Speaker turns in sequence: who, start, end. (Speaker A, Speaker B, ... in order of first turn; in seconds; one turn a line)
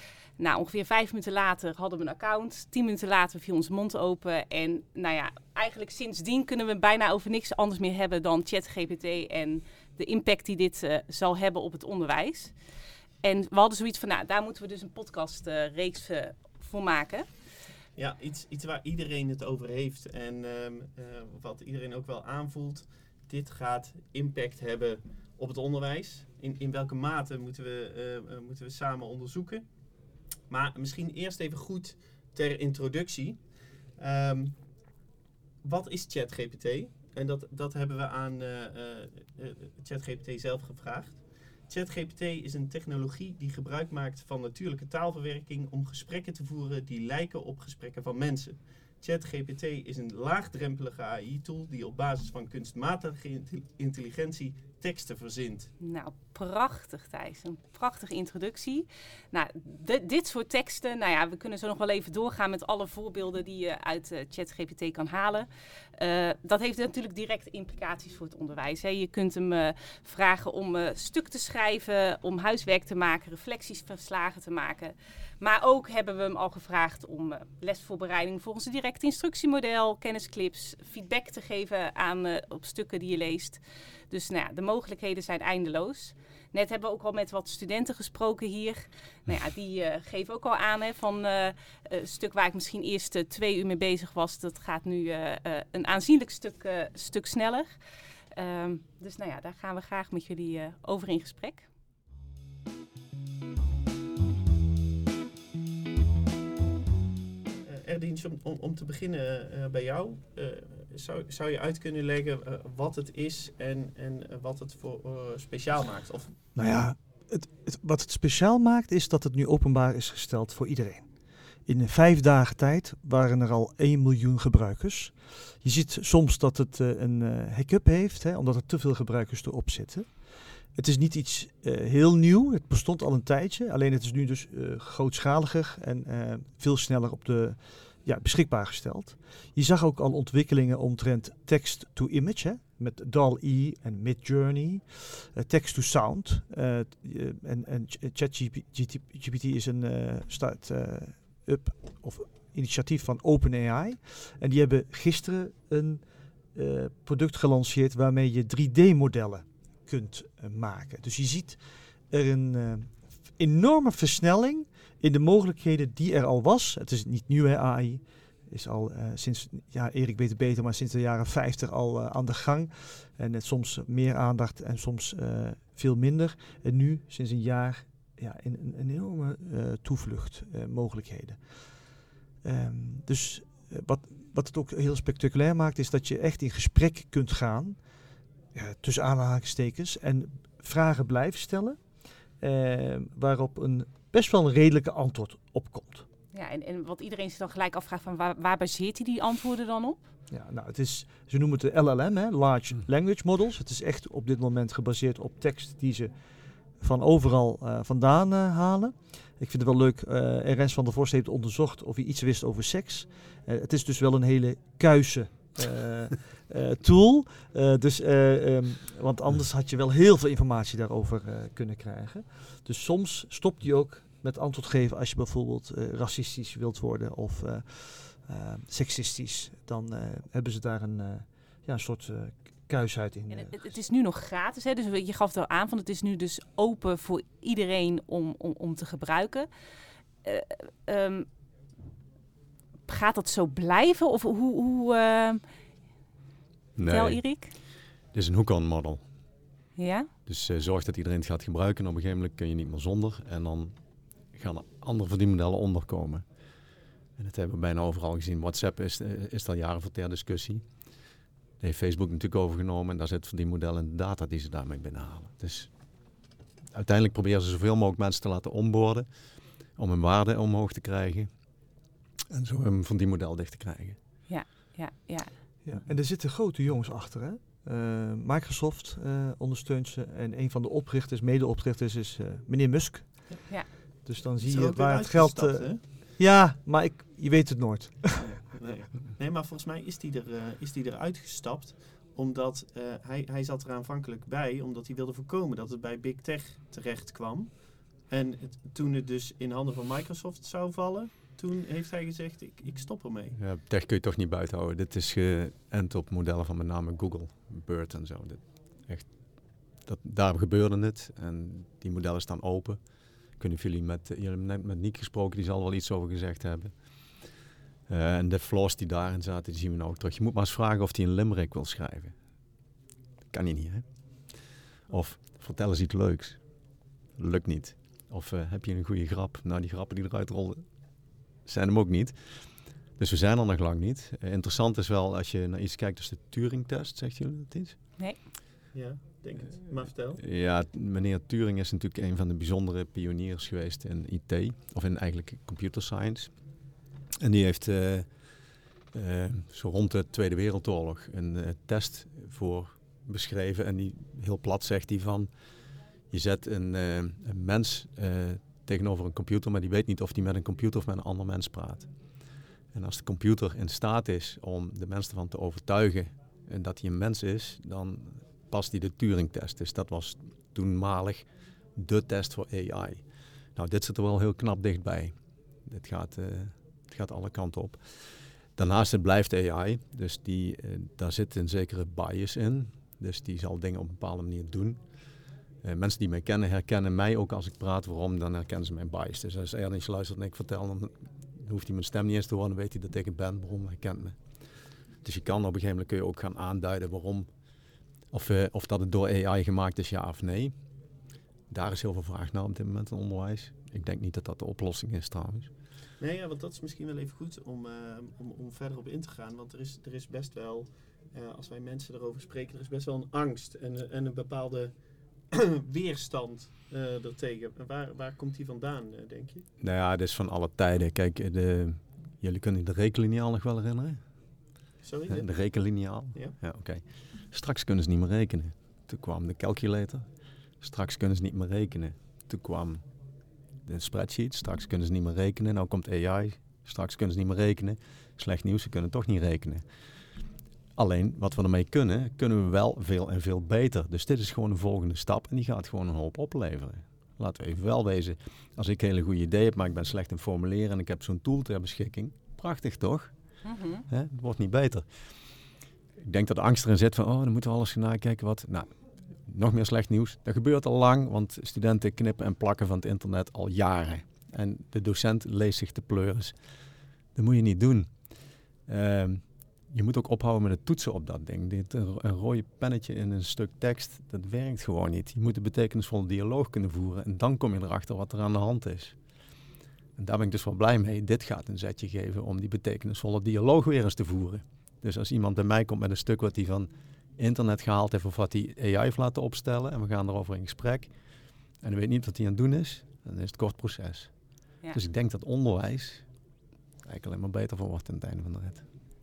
Speaker A: 0.4-12.6
Speaker A: 13.2-17.3
Speaker B: 17.9-29.9
Speaker B: 30.5-34.7
Speaker B: 35.6-55.7
Speaker A: 55.8-97.7
Speaker A: 98.3-101.7
Speaker B: 107.7-116.4
Speaker C: 116.5-156.0
Speaker C: 156.5-181.6
Speaker C: 182.4-187.8
Speaker C: 188.5-191.8
Speaker C: 192.4-196.1
Speaker A: 196.3-200.0
Speaker C: 200.3-206.1
Speaker C: 206.8-233.8
Speaker A: 233.3-239.5
Speaker A: 240.2-241.3
Speaker A: 242.9-245.4
Speaker D: 246.8-247.2
Speaker A: 246.9-247.5
Speaker D: 248.1-249.0
Speaker A: 249.8-250.1
Speaker D: 250.2-253.7
Speaker D: 254.3-256.2
Speaker D: 257.2-260.6
Speaker D: 261.6-265.7
Speaker D: 266.7-269.1
Speaker D: 269.8-271.3
Speaker D: 272.3-274.0
Speaker A: 274.3-275.3
Speaker C: 275.6-283.5
Speaker C: 284.0-288.2
Speaker B: 284.4-285.8
Speaker B: 288.1-303.4
Speaker D: 303.4-309.2
Speaker D: 309.8-312.8
Speaker D: 313.3-317.3
Speaker D: 317.9-322.1
Speaker D: 323.3-326.4
Speaker D: 327.1-330.7
Speaker D: 331.4-332.2
Speaker D: 332.9-337.8
Speaker B: 338.7-340.2
Speaker D: 340.2-346.3
Speaker D: 347.2-348.1
Speaker D: 348.9-355.3
Speaker D: 356.1-361.9
Speaker D: 362.7-373.0
Speaker D: 373.5-384.8
Speaker D: 385.6-394.2
Speaker D: 395.0-397.3
Speaker D: 398.1-400.5
Speaker D: 401.5-405.5
Speaker B: 406.0-419.4
Speaker D: 419.6-424.0
Speaker B: 424.8-425.3
Speaker D: 425.1-430.1
Speaker D: 430.6-432.8
Speaker D: 433.6-439.6
Speaker D: 440.8-453.1
Speaker A: 453.4-453.8
Speaker D: 453.9-454.9
Speaker D: 456.0-466.3
Speaker D: 467.1-468.1
Speaker D: 468.6-478.9
Speaker D: 479.9-490.9
Speaker D: 491.6-494.1
Speaker D: 494.7-496.1
Speaker D: 496.8-498.6